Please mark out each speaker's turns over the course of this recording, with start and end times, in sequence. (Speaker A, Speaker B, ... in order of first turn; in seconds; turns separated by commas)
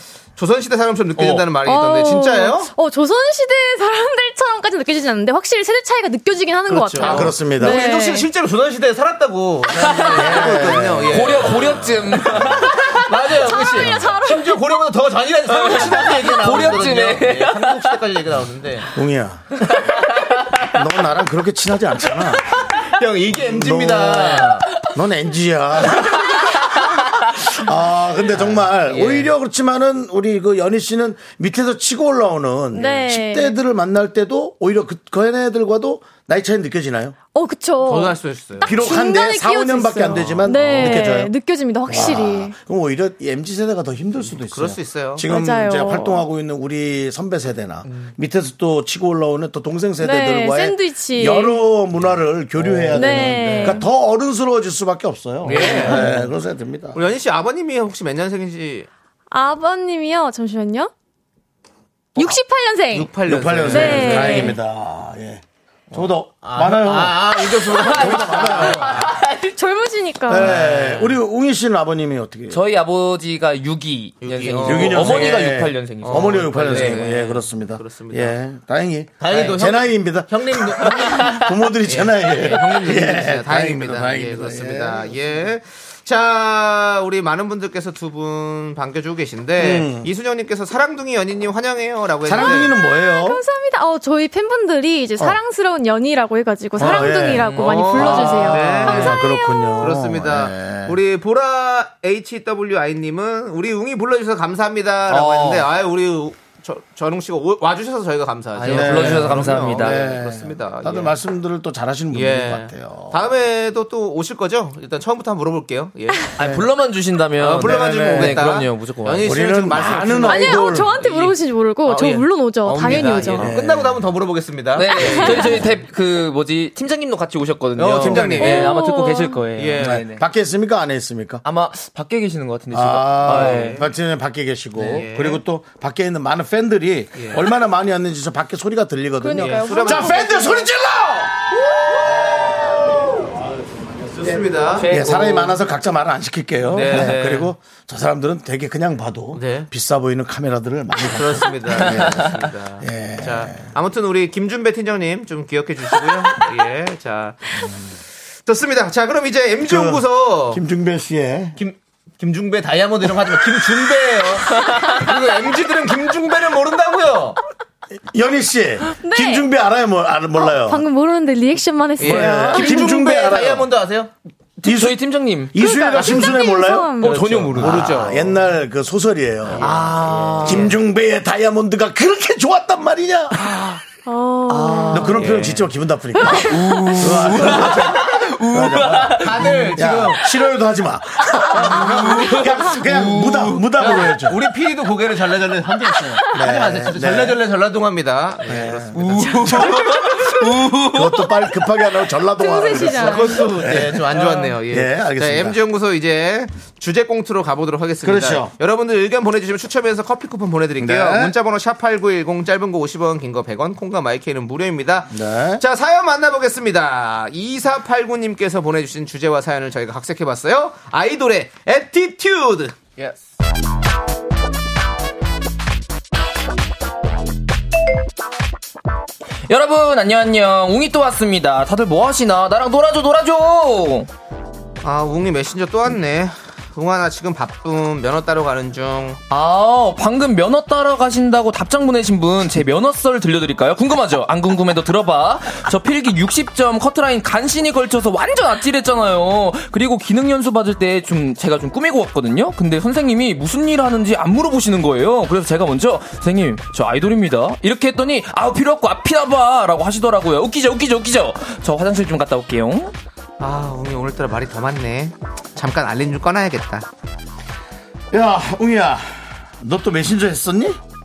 Speaker A: 0.3-2.7, Speaker B: 1.6-8.3, Speaker A: 6.7-18.9, Speaker C: 7.0-7.8, Speaker D: 9.8-10.6, Speaker C: 10.0-11.6, Speaker D: 11.1-13.2, Speaker B: 13.2-14.6, Speaker D: 15.5-18.0, Speaker C: 18.9-20.0, Speaker D: 19.6-20.7, Speaker C: 20.5-22.4, Speaker A: 22.6-24.7, Speaker C: 23.4-37.1, Speaker A: 28.3-29.3, Speaker B: 32.7-33.6, Speaker B: 37.3-42.5, Speaker A: 37.8-38.9, Speaker C: 38.6-41.3, Speaker C: 41.9-57.0, Speaker A: 44.2-45.2, Speaker B: 45.2-46.2, Speaker A: 47.9-48.1, Speaker B: 50.0-51.6, Speaker A: 52.6-53.8, Speaker B: 52.9-53.9, Speaker A: 55.4-56.3, Speaker B: 55.6-56.0, Speaker A: 56.9-58.9, Speaker B: 59.3-60.9, Speaker B: 62.1-64.6, Speaker A: 62.9-64.5, Speaker C: 63.2-69.1, Speaker A: 65.9-69.1, Speaker D: 67.8-69.4, Speaker B: 69.4-70.5, Speaker C: 70.3-72.6, Speaker A: 70.3-71.1, Speaker D: 72.5-77.2, Speaker A: 74.2-75.4, Speaker C: 74.6-85.2, Speaker A: 76.0-78.3, Speaker A: 79.2-92.7, Speaker C: 89.6-90.1, Speaker C: 92.2-93.4, Speaker B: 92.3-99.9, Speaker C: 96.8-101.0, Speaker D: 96.9-98.4, Speaker A: 97.6-99.2, Speaker A: 99.8-111.2, Speaker D: 105.1-105.7, Speaker D: 108.5-110.1, Speaker C: 108.7-113.2, Speaker A: 112.1-116.3, Speaker D: 116.3-119.4, Speaker C: 116.4-116.7, Speaker A: 117.4-125.7, Speaker C: 117.5-118.6, Speaker C: 119.2-120.9, Speaker B: 120.0-123.5, Speaker C: 123.3-124.0, Speaker D: 124.7-130.2, Speaker B: 125.0-125.6, Speaker A: 127.8-128.7, Speaker C: 128.0-128.5, Speaker B: 128.4-129.4, Speaker A: 129.5-130.0, Speaker C: 129.8-131.4, Speaker D: 131.4-133.8, Speaker C: 132.7-141.4, Speaker A: 133.2-133.9, Speaker A: 134.8-135.4, Speaker A: 137.1-137.4, Speaker B: 139.2-140.7, Speaker A: 139.4-140.6, Speaker A: 141.7-143.0, Speaker C: 142.0-153.7, Speaker A: 144.2-144.9, Speaker D: 144.8-145.6, Speaker D: 146.7-147.5, Speaker A: 146.7-147.2, Speaker A: 149.3-149.7, Speaker A: 151.0-157.7, Speaker D: 151.9-152.3, Speaker A: 158.4-160.6, Speaker C: 159.7-161.6, Speaker A: 161.6-167.4, Speaker C: 168.1-170.8, Speaker B: 169.0-169.5, Speaker B: 170.3-173.1, Speaker A: 172.0-174.1, Speaker C: 172.0-173.7, Speaker D: 174.6-175.6, Speaker C: 174.6-175.0, Speaker C: 175.5-179.7, Speaker B: 175.6-177.3, Speaker A: 176.0-176.3, Speaker A: 177.0-178.4, Speaker D: 177.2-177.8, Speaker A: 179.5-180.8, Speaker D: 179.6-180.7, Speaker C: 180.4-183.4, Speaker D: 183.3-183.8, Speaker B: 184.0-184.9, Speaker D: 184.5-185.5, Speaker C: 184.9-194.4, Speaker A: 185.1-185.7, Speaker B: 186.2-186.4, Speaker D: 186.4-189.7, Speaker A: 188.9-190.2, Speaker A: 191.5-193.2, Speaker D: 191.7-193.6, Speaker A: 193.8-200.4, Speaker C: 196.3-197.4, Speaker C: 198.4-199.8, Speaker D: 199.0-201.2, Speaker C: 200.8-205.6, Speaker B: 202.2-203.6, Speaker A: 202.9-223.1, Speaker C: 208.0-208.5, Speaker C: 210.8-211.3, Speaker C: 215.1-215.6, Speaker D: 229.5-234.1, Speaker A: 234.8-239.2, Speaker D: 239.3-262.9, Speaker A: 263.4-266.9, Speaker C: 268.1-270.8